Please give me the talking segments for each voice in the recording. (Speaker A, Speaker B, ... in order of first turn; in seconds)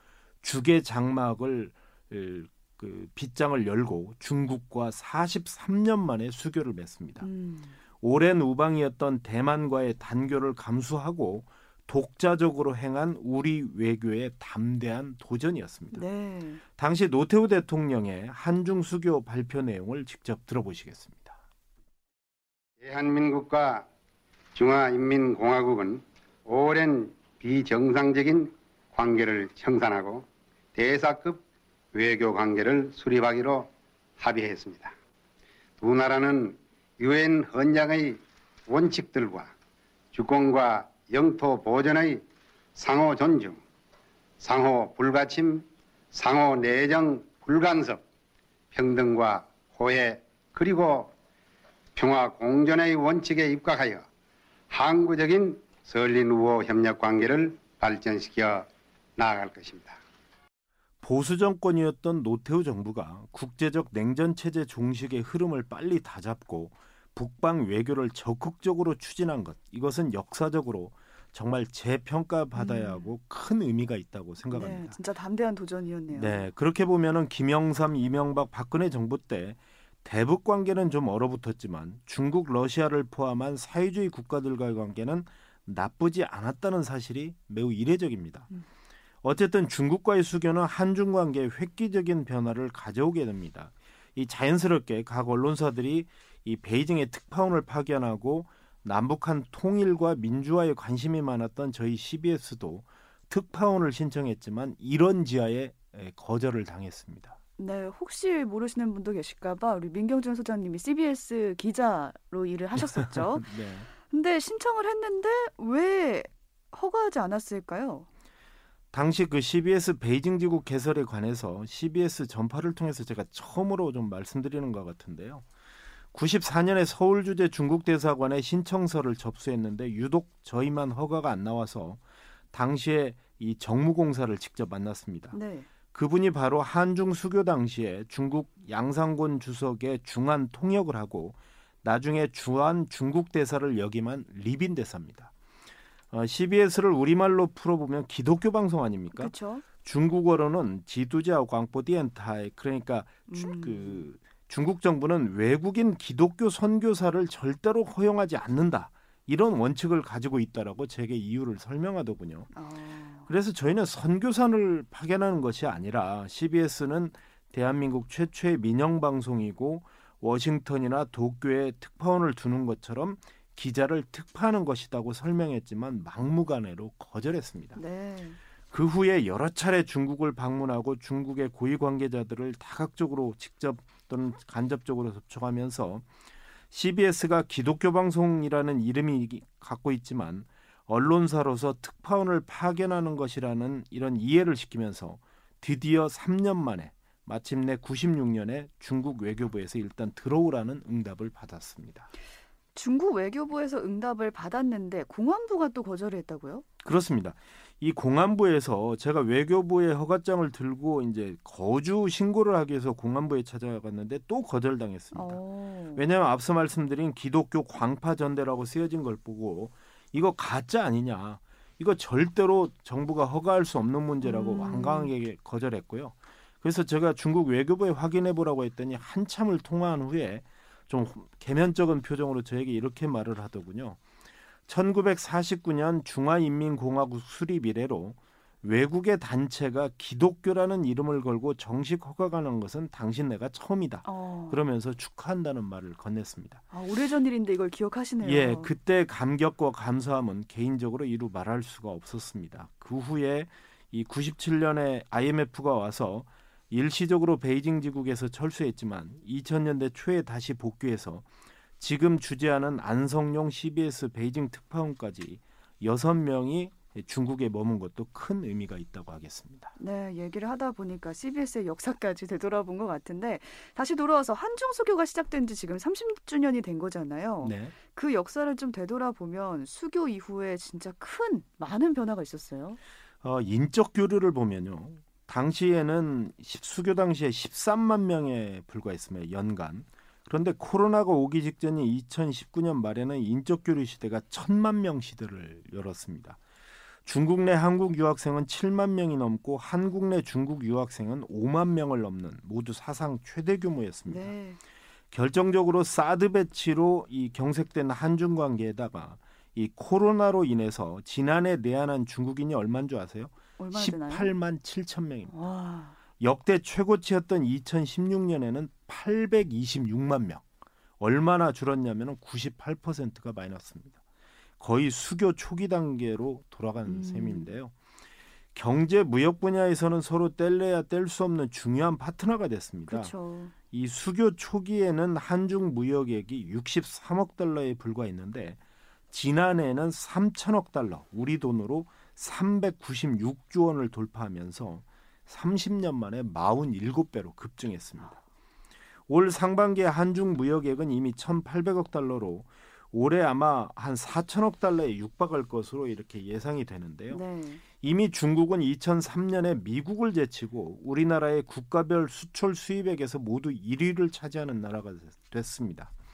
Speaker A: 0.4-7.3, 8.0-16.1, 16.8-21.4, 61.0-75.0, 76.1-88.5, 89.2-107.4, 112.9-113.9, 118.9-125.5, 126.1-132.0, 132.5-135.4, 135.9-145.3, 146.1-162.5, 163.3-177.8, 178.7-186.1, 186.7-202.1, 206.8-215.4, 215.9-234.0, 234.7-246.6, 248.2-261.3, 261.8-269.7, 277.4-277.7, 283.2-296.4, 297.0-304.3, 305.1-315.3, 316.2-320.4, 321.0-324.0, 324.6-327.7, 328.5-333.1, 333.7-338.6, 339.1-348.2, 349.1-357.2, 357.7-365.9
Speaker B: 7.2-7.8, 15.9-16.6, 72.5-73.1, 74.5-76.5, 107.6-118.1, 135.3-135.7, 149.1-149.6, 153.3-154.0, 162.5-163.3, 177.8-178.4, 202.7-206.6, 215.1-216.0, 224.2-225.1, 244.0-244.6, 246.7-248.7, 269.8-282.8, 304.1-304.6, 313.6-314.3, 315.3-315.9, 326.9-327.5, 332.9-333.5, 357.1-357.6
Speaker C: 22.8-23.9, 24.5-31.4, 31.9-34.9, 35.8-39.5, 40.1-42.2, 42.8-43.6, 44.4-48.0, 48.7-51.1, 52.0-54.0, 54.7-60.0